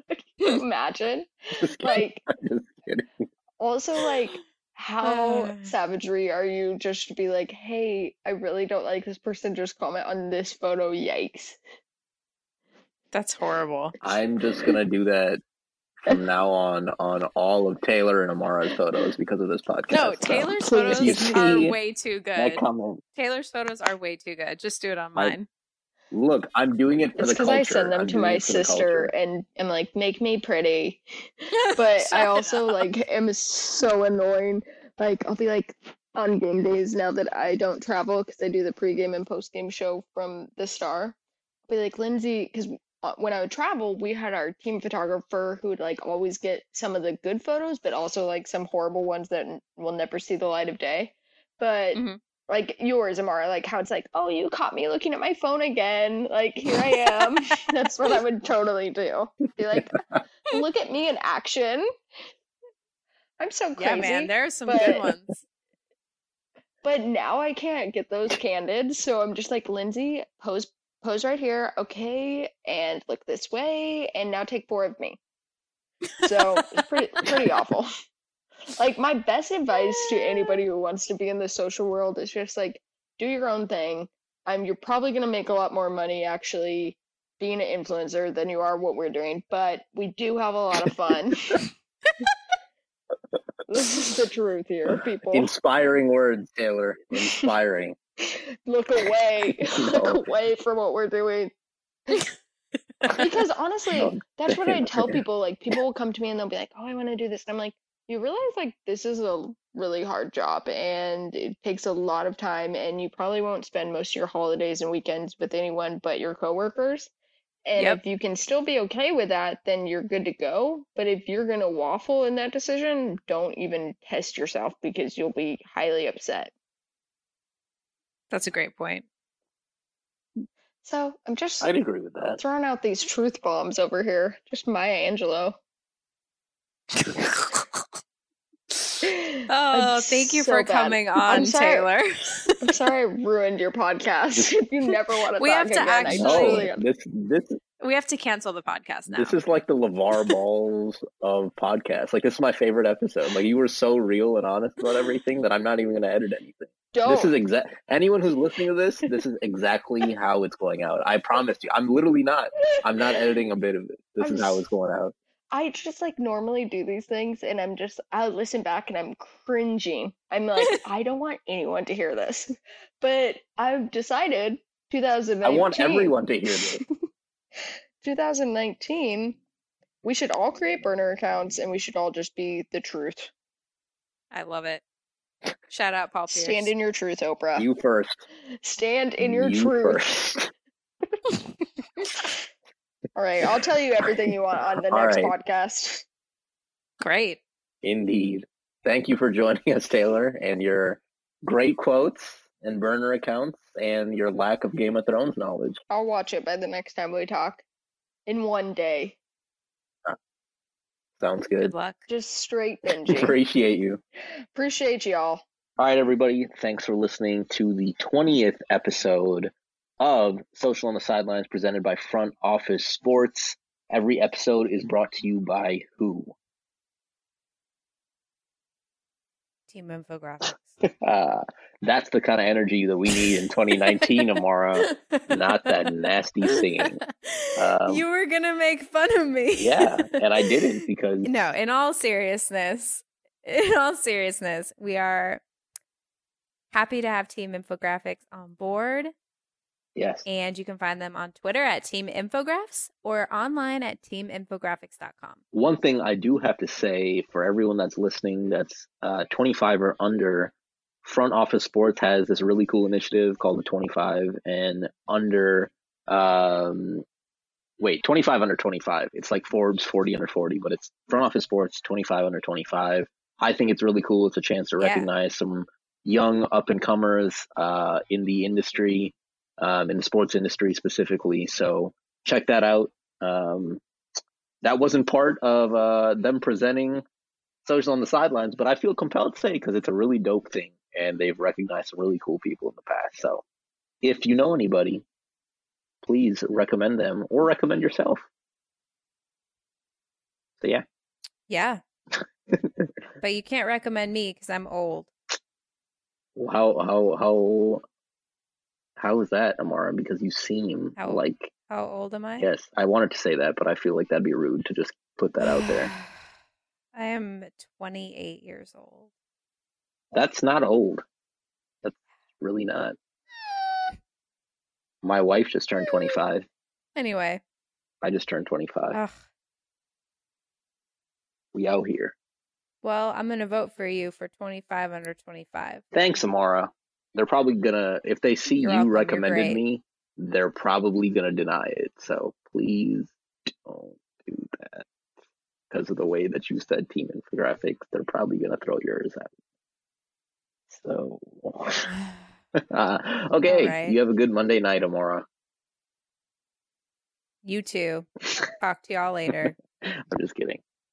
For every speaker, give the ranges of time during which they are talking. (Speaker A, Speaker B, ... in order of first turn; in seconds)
Speaker A: 0.1-2.2, 3.6-11.6, 20.6-21.6, 27.2-31.0, 31.7-41.1, 41.7-61.9, 63.4-65.0, 66.8-75.2, 76.2-77.9, 78.8-91.7, 93.7-95.5, 98.2-101.5, 103.1-117.1, 117.7-126.5, 130.8-131.7, 132.4-135.6, 139.0-141.9, 142.6-146.8, 156.9-157.3, 164.2-164.7, 165.5-176.2, 178.0-179.4, 180.0-183.3, 186.3-187.7, 188.6-190.2, 193.2-196.1, 205.9-207.6, 208.3-209.2, 212.1-213.4, 214.5-215.4
Speaker B: 1.6-3.1, 14.0-15.4, 16.0-21.8, 22.4-23.0, 26.1-29.1, 95.3-98.0, 99.8-100.3, 104.0-105.2, 131.6-132.4, 146.1-147.6, 149.1-165.1, 175.4-176.8, 187.6-188.2, 189.2-190.5, 194.9-195.3, 197.8-205.8, 211.2-211.7, 213.1-214.0, 215.8-226.3, 231.0-237.0, 237.6-238.0, 239.6-241.3, 250.0-250.2, 255.5-260.5, 261.0-267.0, 267.8-283.8, 284.6-287.0, 287.6-293.4, 294.0-295.1, 296.0-298.3, 300.6-300.9, 302.1-302.9, 306.4-307.8, 309.0-311.5, 312.4-315.9, 320.1-321.0, 321.8-323.0, 325.0-326.5, 328.0-329.0, 331.5-332.1, 335.9-344.9, 345.7-349.3, 350.7-351.9, 352.7-355.2, 359.3-360.6
Speaker C: 5.0-5.7, 13.1-14.0, 19.9-22.6, 23.2-25.5, 32.0-32.8, 51.9-52.2, 63.8-65.4, 128.3-129.1, 137.0-137.9, 138.7-139.0, 139.5-142.7, 145.4-146.7, 147.8-149.4, 184.3-184.8, 185.7-186.7, 197.0-197.4, 211.6-212.0, 229.7-230.8, 234.0-235.9, 236.5-240.7, 241.2-245.4, 246.7-249.1, 250.2-255.4, 274.8-275.1, 301.5-301.8, 303.2-305.1, 311.0-312.5, 315.4-316.1, 316.9-319.1, 327.0-327.4, 332.8-335.8, 338.6-339.6, 353.4-354.0, 357.4-358.1, 358.6-359.5